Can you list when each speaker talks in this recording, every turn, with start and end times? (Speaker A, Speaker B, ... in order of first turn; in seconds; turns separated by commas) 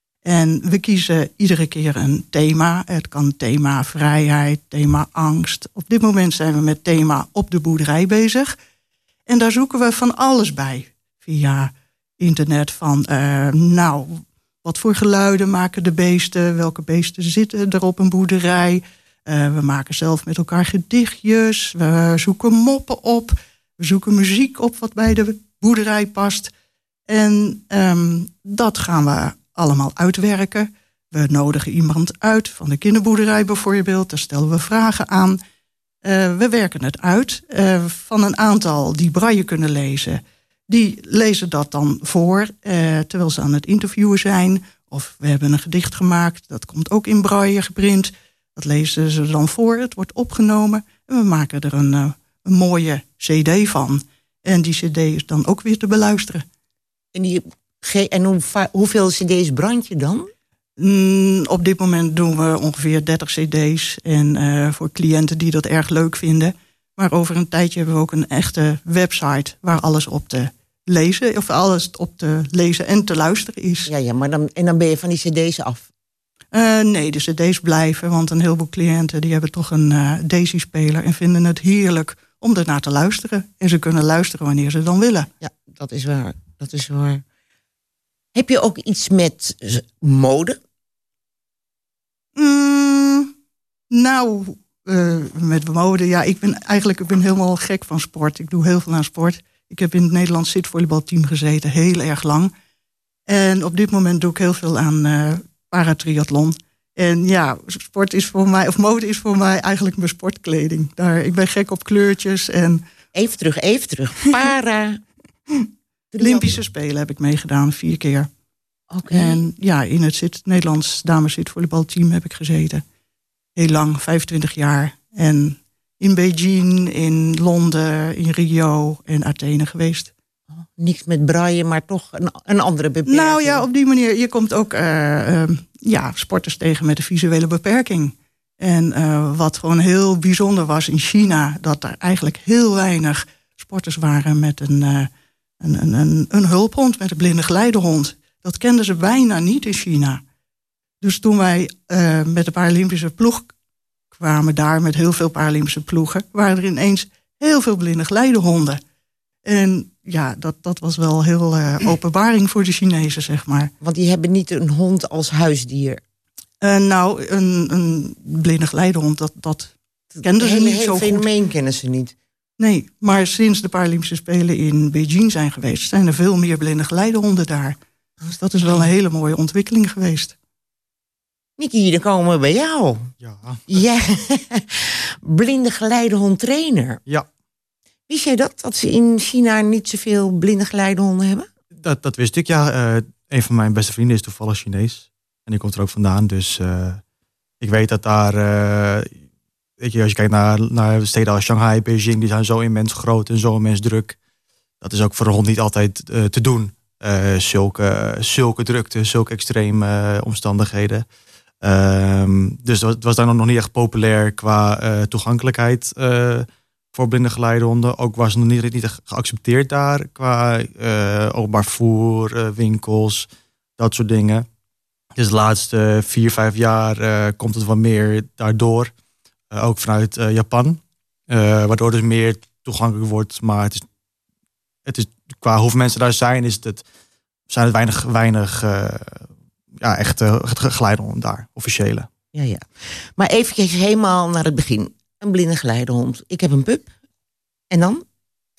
Speaker A: 0.2-8.5, Speaker A: 9.3-26.5, Speaker A: 27.1-35.4, Speaker A: 36.0-56.5, Speaker B: 57.1-60.3, Speaker A: 60.8-73.9, Speaker B: 73.9-75.8, Speaker A: 76.5-85.3, Speaker B: 85.4-87.2, Speaker B: 88.3-90.6, Speaker A: 92.3-93.3, Speaker A: 93.9-102.5, Speaker A: 103.3-112.8, Speaker B: 113.1-115.0, Speaker B: 116.1-116.5, Speaker A: 116.2-118.3, Speaker B: 118.9-119.4, Speaker A: 119.1-122.8, Speaker A: 123.5-130.1, Speaker B: 130.5-133.6, Speaker A: 133.1-145.1, Speaker A: 145.6-150.2, Speaker A: 151.0-153.5, Speaker A: 154.1-158.8, Speaker A: 159.4-163.7, Speaker B: 163.8-166.0, Speaker A: 166.6-171.3, Speaker B: 170.3-172.1, Speaker A: 172.6-180.3, Speaker B: 181.6-183.1, Speaker C: 183.2-183.6, Speaker B: 183.7-187.0, Speaker B: 188.1-191.5, Speaker C: 191.8-197.0, Speaker C: 197.6-199.1, Speaker C: 199.8-204.2, Speaker C: 204.8-211.1, Speaker C: 211.6-224.5, Speaker C: 225.2-228.9, Speaker C: 229.5-233.8, Speaker C: 234.8-236.8, Speaker C: 237.5-239.3, Speaker C: 239.8-242.1, Speaker B: 242.3-246.9, Speaker B: 247.7-248.0